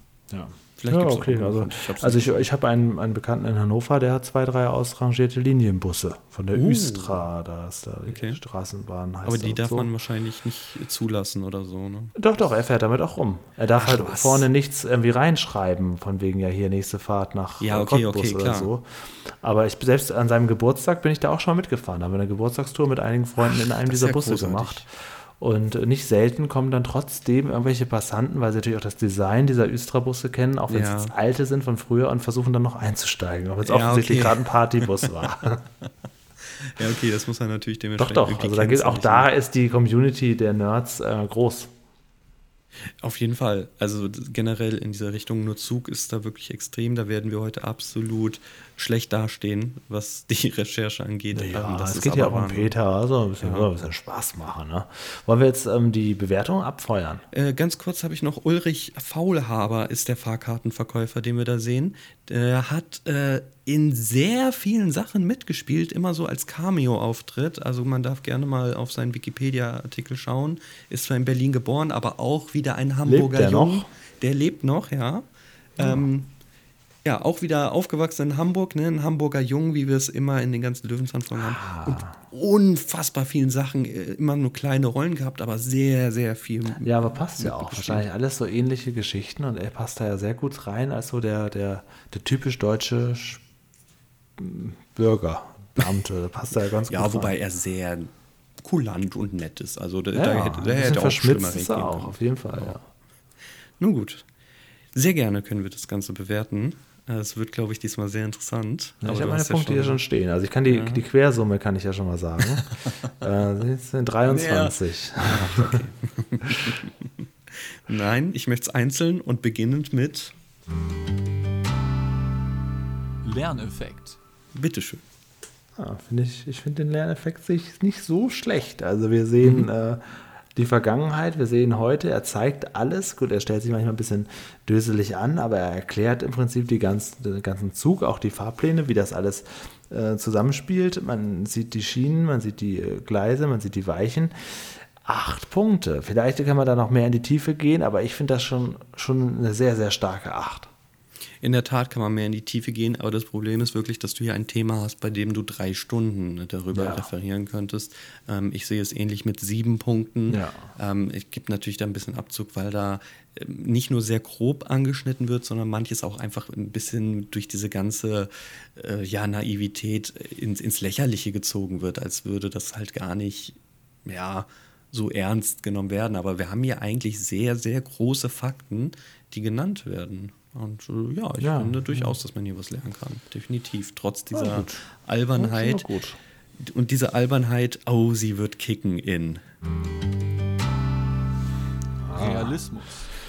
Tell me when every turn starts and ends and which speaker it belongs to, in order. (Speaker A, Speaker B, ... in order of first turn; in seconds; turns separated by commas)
Speaker A: 0.3-9.9, Speaker B: 0.8-2.5, Speaker B: 6.5-7.2, Speaker B: 8.1-8.4, Speaker B: 9.2-12.1, Speaker A: 12.2-24.9, Speaker B: 13.8-14.5, Speaker B: 17.6-18.7, Speaker B: 23.4-24.9, Speaker A: 25.4-35.6, Speaker B: 30.7-31.1, Speaker B: 33.6-34.9, Speaker B: 36.6-39.3, Speaker A: 38.0-41.7, Speaker B: 43.0-52.7, Speaker A: 51.3-57.2, Speaker B: 53.4-53.7, Speaker B: 57.3-75.2, Speaker A: 73.0-73.9, Speaker B: 75.8-76.3, Speaker A: 75.8-76.1, Speaker B: 77.0-88.0, Speaker A: 81.3-82.1, Speaker A: 86.8-93.4, Speaker A: 94.4-97.3, Speaker B: 96.9-102.8, Speaker A: 100.1-102.8, Speaker B: 103.8-104.2, Speaker B: 104.9-110.0, Speaker A: 109.0-115.8, Speaker B: 110.7-111.0, Speaker B: 114.3-120.3, Speaker C: 123.2-124.2, Speaker B: 124.5-125.0, Speaker A: 125.8-130.0, Speaker A: 130.5-150.7, Speaker B: 151.4-185.8, Speaker A: 156.7-157.1, Speaker A: 160.3-160.7, Speaker A: 181.4-182.1, Speaker A: 184.3-184.8, Speaker A: 185.4-186.2, Speaker B: 186.6-189.4, Speaker A: 192.0-192.6, Speaker C: 192.1-193.1